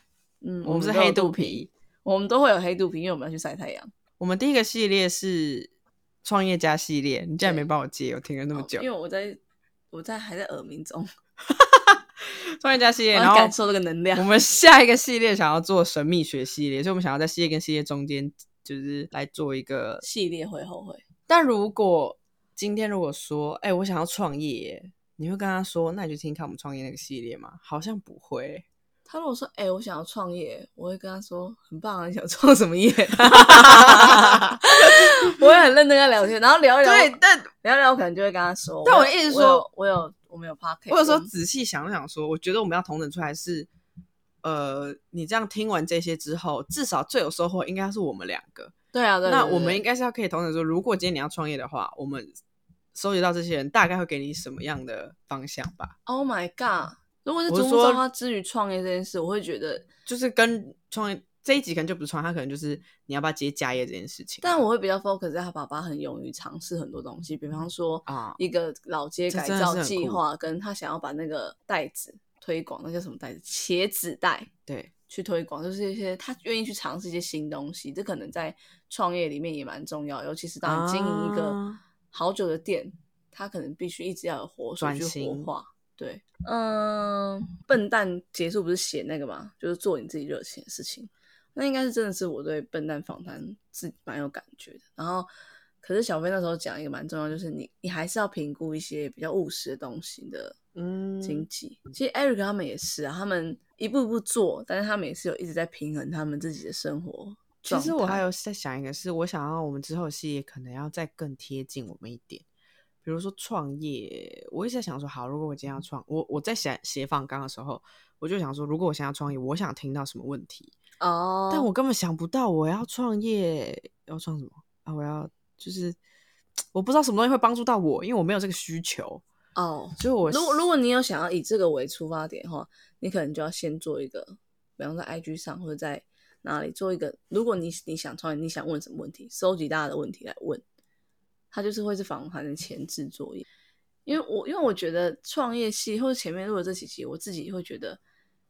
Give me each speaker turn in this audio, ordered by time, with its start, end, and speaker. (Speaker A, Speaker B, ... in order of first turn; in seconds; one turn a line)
Speaker A: 0.4-3.9
Speaker B: 0.6-1.7
Speaker B: 4.2-5.7
Speaker B: 6.2-8.9
Speaker A: 7.4-7.7
Speaker A: 8.5-9.4
Speaker A: 9.9-11.1
Speaker B: 11.5-13.5
Speaker A: 13.1-14.3
Speaker B: 14.1-20.0
Speaker A: 20.0-21.0
Speaker B: 21.3-28.6
Speaker A: 29.1-41.3
Speaker B: 33.5-35.1
Speaker B: 36.8-37.5
Speaker B: 38.9-39.7
Speaker B: 40.9-43.7
Speaker B: 44.4-48.7
Speaker A: 48.9-49.8
Speaker B: 49.2-52.4
Speaker B: 52.9-56.0
Speaker A: 56.0-59.9
Speaker B: 57.5-58.0
Speaker B: 60.1-64.6
Speaker A: 64.4-74.5
Speaker B: 68.1-68.4
Speaker B: 69.3-70.2
Speaker A: 75.1-81.6
Speaker B: 80.6-81.8
Speaker A: 82.1-95.3
Speaker B: 84.8-85.5
Speaker A: 95.8-100.5
Speaker B: 100.7-101.5
Speaker A: 101.2-108.2
Speaker B: 107.6-112.4
Speaker B: 113.0-120.7
Speaker A: 121.0-121.7
Speaker B: 121.5-126.0
Speaker B: 126.7-129.2
Speaker A: 129.6-140.6
Speaker B: 130.0-130.7
Speaker A: 141.5-143.4
Speaker A: 144.1-148.0